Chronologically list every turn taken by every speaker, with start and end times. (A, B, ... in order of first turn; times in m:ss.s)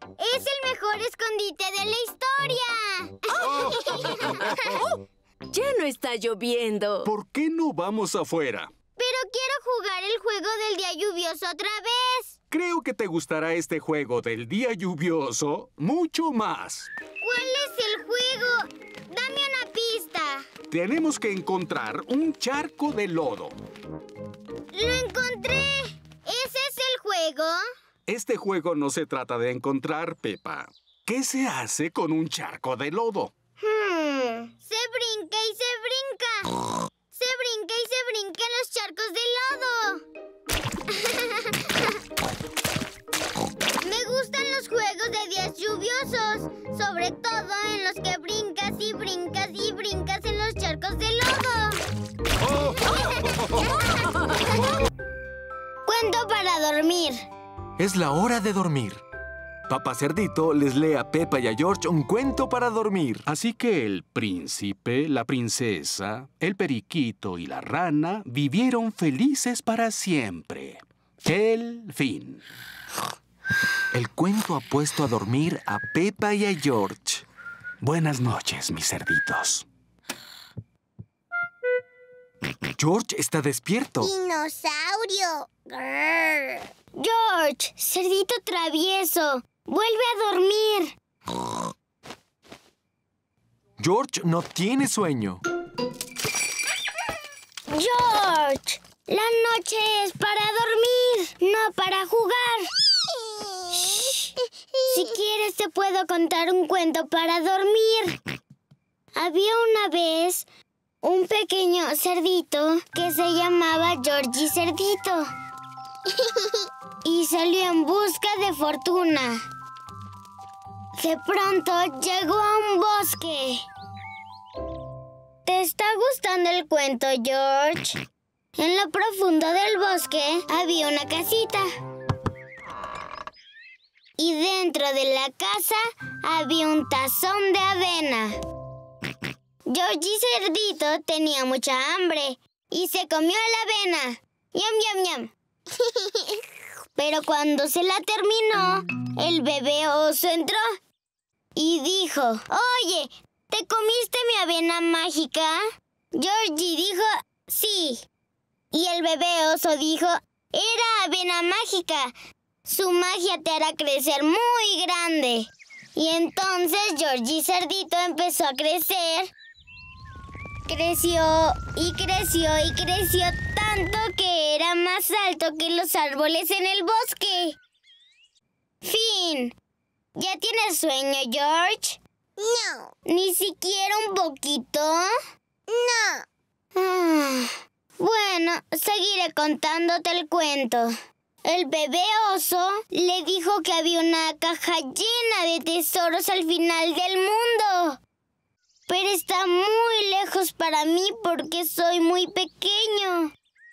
0:00.2-0:04.1 A
0:03.4-0:04.8 B
0:04.4-0:04.8 C
0:05.5-0:07.1 C
0:07.0-0:08.7 B
0:09.0-0:12.4 A
0:12.5-0:16.9 B
0:17.2-0:20.4 A
0:20.7-0:23.5 B
0:24.7-0:27.6 A
0:28.1-0:33.3 B
0:33.6-0:36.5 A
0:37.1-0:40.0 A
0:40.9-0:41.6 A
0:43.8-0:51.8 A
0:55.8-0:57.2 A
0:57.8-0:59.0 D
0:59.7-1:03.2 D
1:03.3-1:12.4 B
1:13.9-1:17.2 D
1:17.8-1:19.6 B
1:22.8-1:24.1 D
1:24.0-1:30.9 A
1:33.8-1:35.4 D
1:37.7-1:42.7 A
1:43.7-1:44.2 A
1:44.9-1:48.2 A
1:49.1-1:50.5 A
1:51.0-1:55.3 A
1:57.0-1:59.4 A
2:01.0-2:03.6 A
2:05.4-2:08.0 A
2:08.6-2:11.7 A
2:14.2-2:18.4 A
2:19.7-2:26.4 A
2:27.0-2:30.7 A
2:31.6-2:35.6 A
2:36.1-2:38.0 A
2:38.7-2:42.1 A
2:42.7-2:49.3 A
2:50.7-2:57.6 A
2:58.8-2:59.5 A
3:00.2-3:05.1 A
3:05.7-3:10.9 A
3:11.4-3:18.0 A
3:18.9-3:23.3 A